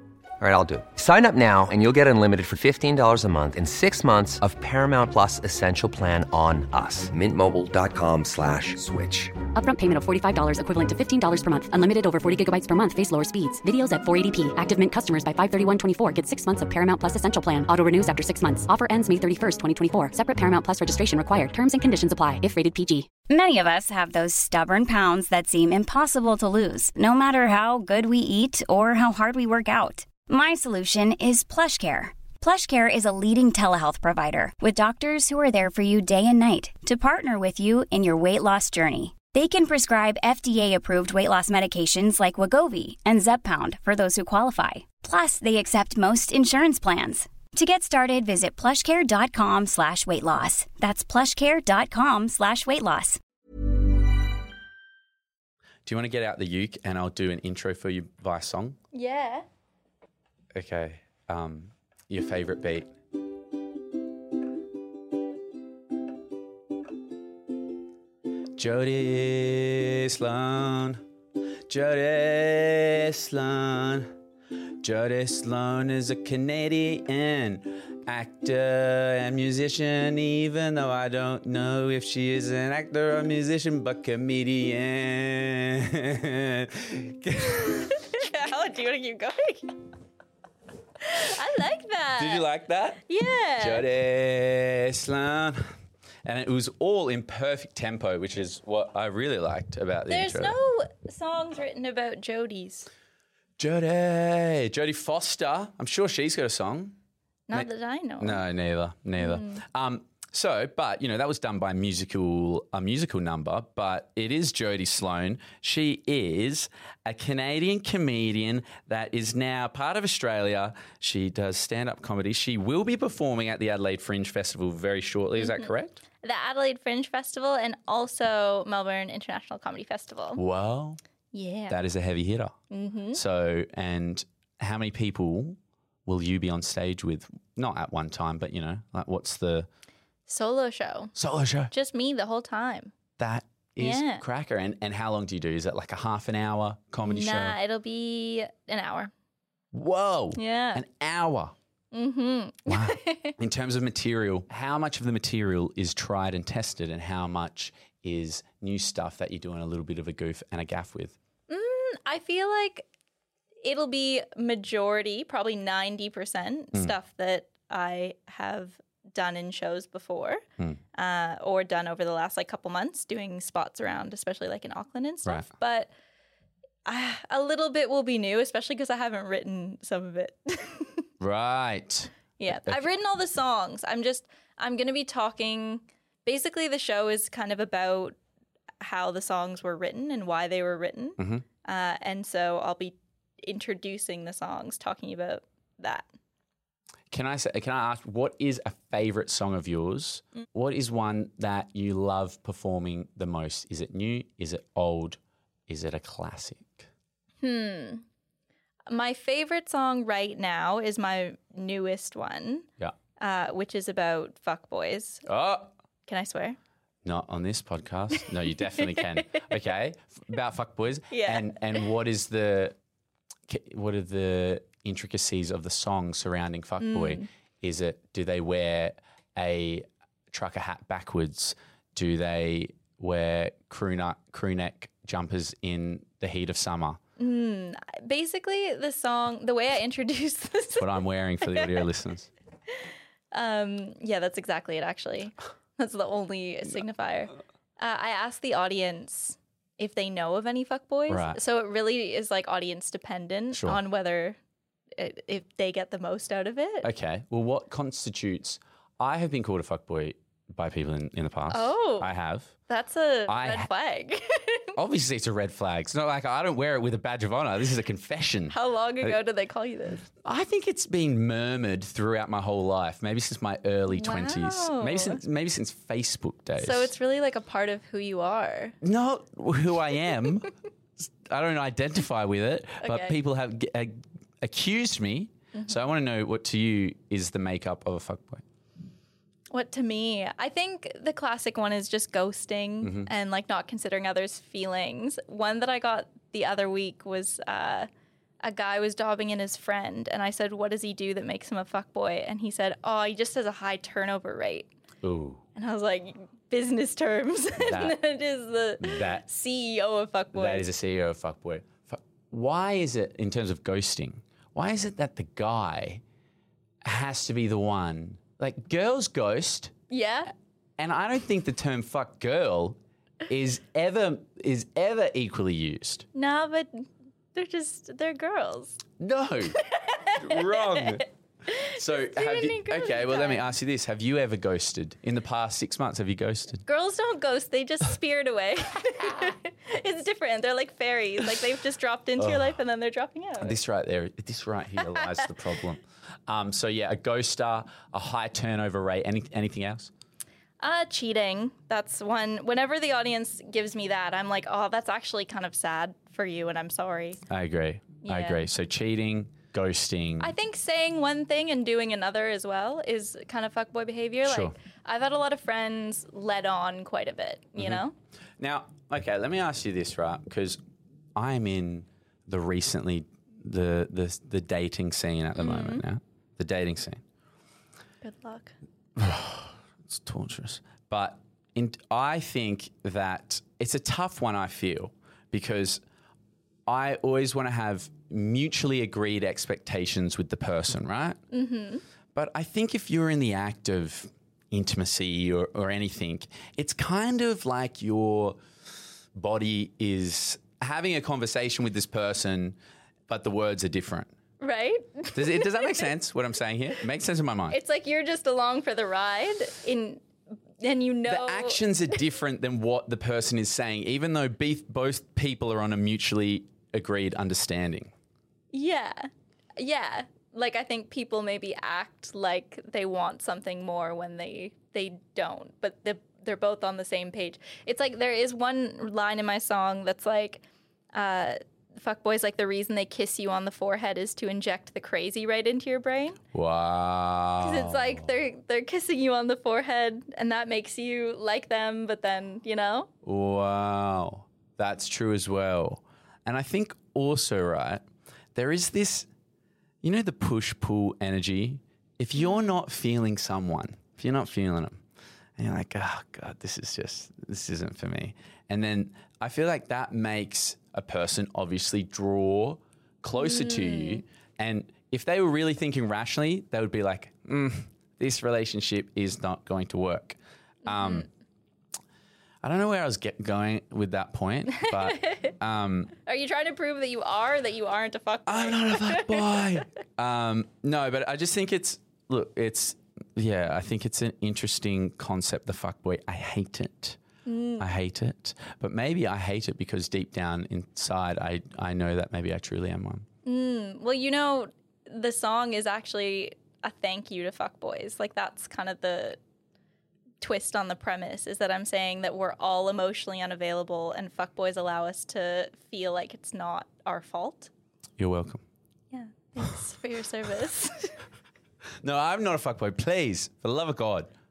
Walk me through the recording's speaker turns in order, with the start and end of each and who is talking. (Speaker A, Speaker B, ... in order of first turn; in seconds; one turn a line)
Speaker A: 0.4-9.4
Speaker B: 9.5-23.1
Speaker C: 23.3-53.2
Speaker D: 55.9-58.8
Speaker E: 58.9-59.5
Speaker D: 60.5-62.9
Speaker D: 68.5-71.0
Speaker D: 71.7-74.1
Speaker D: 74.8-88.1
Speaker E: 87.8-89.8
Speaker E: 91.0-92.5
Speaker D: 92.2-93.0
Speaker E: 93.0-93.8
Speaker D: 93.6-95.7
Speaker D: 96.2-100.6
Speaker E: 100.1-102.9
Speaker D: 103.6-107.0
Speaker E: 107.5-108.4
Speaker D: 108.2-126.0
Speaker E: 109.2-109.6
Speaker E: 125.4-125.7
Speaker E: 126.2-130.4
Speaker D: 130.3-131.0
Speaker E: 131.3-131.8
Speaker D: 131.7-132.5
Speaker E: 132.7-133.2
Speaker D: 133.1-139.7
Speaker E: 140.3-141.1
Speaker D: 141.2-141.7
Speaker E: 141.7-142.9
Speaker D: 143.2-147.6
Speaker E: 143.8-144.2
Speaker E: 147.0-149.1
Speaker D: 149.7-151.5
Speaker E: 150.3-150.8
Speaker E: 151.9-153.4
Speaker D: 152.7-161.2
Speaker E: 161.5-162.9
Speaker E: 163.6-170.4
Speaker E: 170.9-175.9
Speaker E: 176.8-181.1
Speaker D: 181.2-182.8
Speaker E: 182.4-188.1
Speaker E: 188.8-196.1
Speaker D: 191.2-191.4
Speaker D: 197.1-206.9
Speaker E: 207.4-208.0
Speaker E: 208.9-212.7
Speaker E: 213.2-215.2
Speaker D: 215.2-215.7
Speaker E: 216.1-216.6
Speaker D: 217.0-222.8
Speaker E: 221.1-221.6
Speaker D: 223.5-237.0
Speaker E: 226.8-227.3
Speaker E: 237.2-240.9
Speaker D: 240.8-242.3
Speaker E: 241.4-241.8
Speaker E: 243.3-254.4
Speaker D: 251.1-251.4
Speaker D: 253.5-253.8
Speaker E: 254.9-256.9
Speaker D: 256.8-262.5
Speaker E: 261.5-262.1
Speaker E: 262.7-264.7
Speaker D: 263.3-263.7
Speaker D: 264.7-269.2
Speaker E: 268.5-270.0
Speaker D: 270.2-276.9
Speaker E: 273.9-275.2
Speaker E: 276.6-278.8
Speaker D: 278.8-280.5
Speaker D: 281.0-288.4
Speaker E: 282.8-283.2
Speaker E: 289.5-297.9
Speaker D: 292.8-293.1
Speaker E: 298.4-304.7
Speaker D: 305.0-305.4
Speaker E: 305.5-310.6
Speaker D: 307.6-308.0
Speaker D: 308.8-309.2
Speaker D: 310.3-316.0
Speaker D: 316.8-319.7
Speaker E: 319.9-320.3
Speaker D: 320.8-326.1
Speaker E: 326.1-328.8
Speaker D: 329.0-331.1
Speaker E: 329.6-333.4
Speaker D: 331.7-336.6
Speaker E: 336.6-343.6
Speaker D: 342.2-342.5
Speaker D: 343.4-349.9
Speaker E: 344.9-345.2
Speaker E: 350.6-357.2
Speaker D: 357.3-360.3
Speaker E: 358.0-358.4
Speaker E: 360.2-367.9
Speaker D: 364.2-364.5
Speaker D: 368.4-370.6
Speaker D: 371.1-377.0
Speaker E: 375.4-375.8
Speaker E: 378.0-378.5
Speaker D: 378.9-385.8
Speaker D: 386.7-391.2
Speaker E: 391.3-391.8
Speaker D: 392.1-398.4
Speaker D: 399.1-402.6
Speaker D: 403.1-404.1
Speaker E: 404.4-405.9
Speaker D: 405.1-407.6
Speaker E: 407.5-410.0
Speaker E: 410.6-411.6
Speaker D: 411.1-417.9
Speaker E: 418.5-436.2
Speaker D: 436.3-438.1
Speaker E: 437.4-442.9
Speaker D: 443.0-449.1
Speaker D: 449.8-454.8
Speaker E: 452.2-452.6
Speaker D: 455.4-471.1
Speaker E: 463.1-464.0
Speaker E: 470.6-471.1
Speaker D: 472.4-475.9
Speaker E: 474.6-475.3
Speaker E: 476.0-479.6
Speaker D: 478.2-487.0
Speaker E: 487.2-487.7
Speaker D: 487.6-493.1
Speaker E: 493.2-499.2
Speaker E: 500.2-507.5
Speaker D: 508.0-508.4
Speaker E: 508.9-511.0
Speaker D: 511.8-514.1